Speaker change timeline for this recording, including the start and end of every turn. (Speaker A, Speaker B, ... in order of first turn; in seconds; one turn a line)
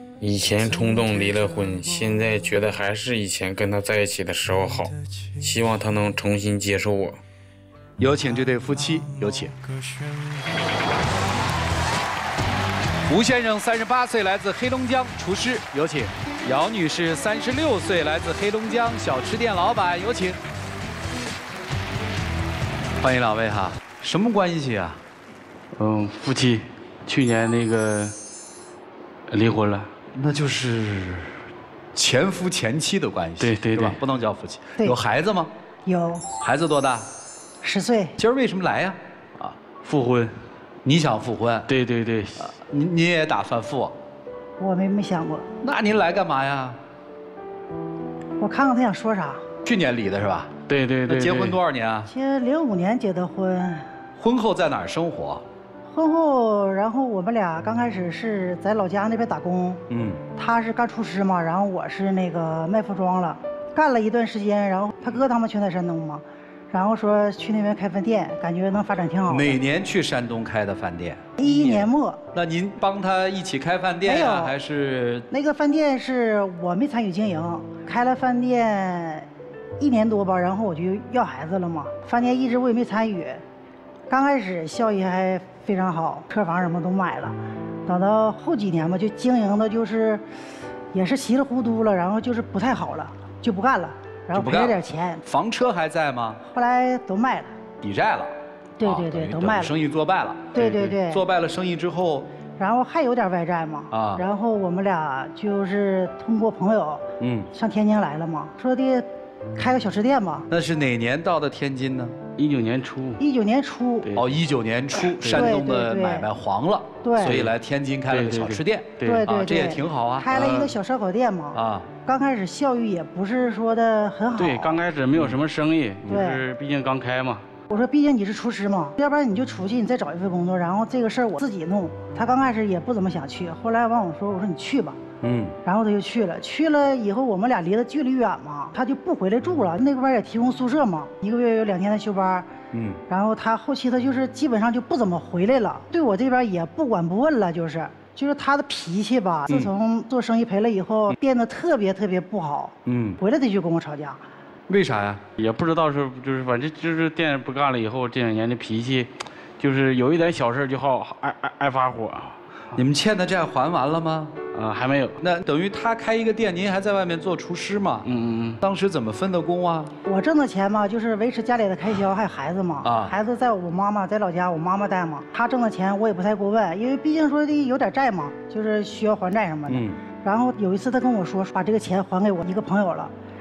Speaker A: 0.2-7.2
Speaker B: 8.0-9.5
Speaker B: 13.1-20.4
Speaker B: 23.0-25.0
Speaker C: 25.8-28.1
Speaker C: 29.3-29.9
Speaker B: 30.1-31.4
Speaker B: 31.9-35.5
Speaker C: 33.4-34.0
Speaker D: 35.8-36.3
Speaker B: 36.4-37.1
Speaker D: 37.6-38.1
Speaker B: 38.2-39.5
Speaker C: 39.8-40.3
Speaker B: 40.8-41.7
Speaker C: 41.7-42.5
Speaker B: 42.4-43.9
Speaker D: 44.6-45.5
Speaker B: 45.6-46.8
Speaker D: 48.4-49.4
Speaker B: 49.6-50.5
Speaker C: 50.7-51.6
Speaker B: 51.0-52.1
Speaker D: 52.1-53.9
Speaker B: 54.2-55.4
Speaker D: 55.9-59.8
Speaker B: 59.9-60.2
Speaker D: 60.4-69.6
Speaker B: 69.3-75.3
Speaker D: 71.4-72.2
Speaker D: 74.0-74.5
Speaker D: 75.3-83.4
Speaker D: 84.1-87.3
Speaker D: 87.8-90.2
Speaker D: 90.9-95.2
Speaker B: 94.3-96.4
Speaker D: 96.5-97.5
Speaker B: 97.8-102.3
Speaker D: 98.8-99.7
Speaker D: 100.5-101.2
Speaker D: 102.6-110.5
Speaker B: 103.9-104.2
Speaker B: 107.2-107.5
Speaker B: 110.5-112.2
Speaker C: 112.4-113.2
Speaker D: 113.2-114.1
Speaker C: 114.0-114.3
Speaker B: 114.2-120.5
Speaker C: 115.2-115.5
Speaker D: 115.3-116.3
Speaker D: 117.0-117.4
Speaker C: 117.2-117.5
Speaker C: 118.1-119.2
Speaker D: 119.0-124.8
Speaker C: 120.3-120.7
Speaker B: 121.5-121.9
Speaker C: 124.3-127.4
Speaker D: 126.1-126.4
Speaker D: 127.7-135.0
Speaker B: 135.2-135.6
Speaker D: 135.6-142.5
Speaker B: 142.7-143.0
Speaker D: 143.1-154.2
Speaker B: 152.8-153.2
Speaker B: 154.7-155.2
Speaker C: 155.4-162.4
Speaker B: 162.7-164.3
Speaker C: 164.5-165.2
Speaker B: 165.2-168.1
Speaker C: 168.0-168.6
Speaker B: 168.6-169.9
Speaker D: 170.1-183.1
Speaker B: 172.8-173.1
Speaker B: 179.7-180.0